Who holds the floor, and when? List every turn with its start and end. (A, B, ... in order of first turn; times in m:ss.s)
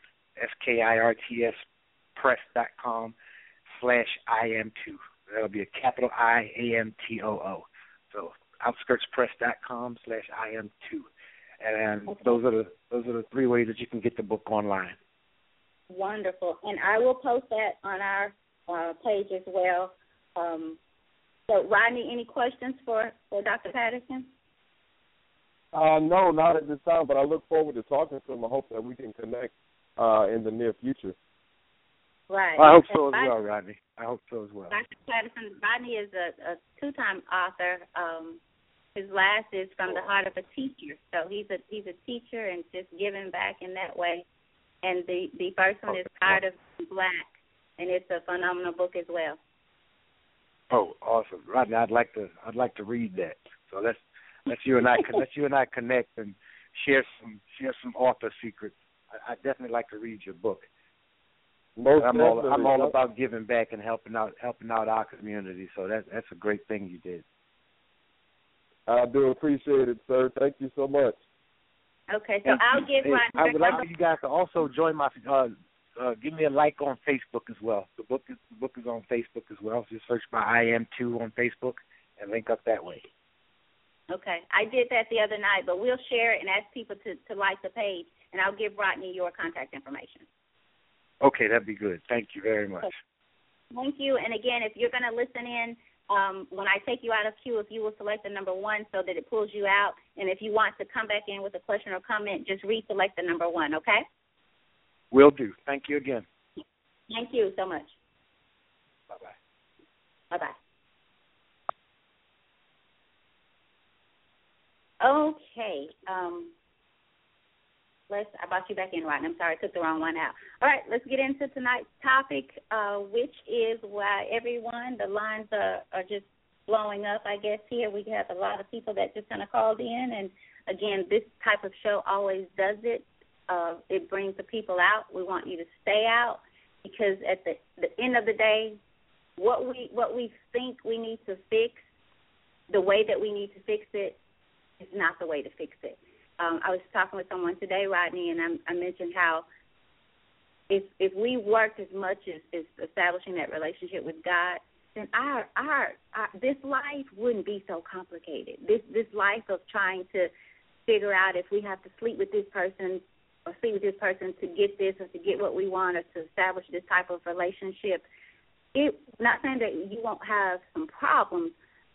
0:00.4-0:01.6 A
0:02.1-0:03.2 A
0:03.7-0:11.1 A
0:11.6-0:15.0 A
0:12.1-0:12.4 B
0:15.9-0:20.8 B
0:21.5-0:24.3 B
0:25.7-0:31.1 C
0:32.3-0:33.3 B
0:32.6-0:34.8 A
0:34.7-0:38.4 B
0:38.9-0:44.2 B
0:44.8-0:47.3 B
0:45.9-0:46.3 A
0:47.8-0:49.4 B
0:50.7-1:00.7 A
1:01.8-1:02.9 C
1:02.0-1:07.2 A
1:08.9-1:11.2 C
1:12.1-1:13.8 B
1:12.4-1:23.0 A
1:24.1-1:30.2 B
1:31.2-1:32.9 A
1:33.7-1:44.0 B
1:45.1-1:46.2 A
1:47.1-1:47.9 B
1:55.0-1:56.5 B
1:58.1-2:18.8 B
2:19.4-2:21.8 B
2:22.7-2:24.2 B
2:24.8-2:29.4 B
2:30.7-2:40.3 B
2:40.9-2:48.0 B
2:48.7-2:51.5 B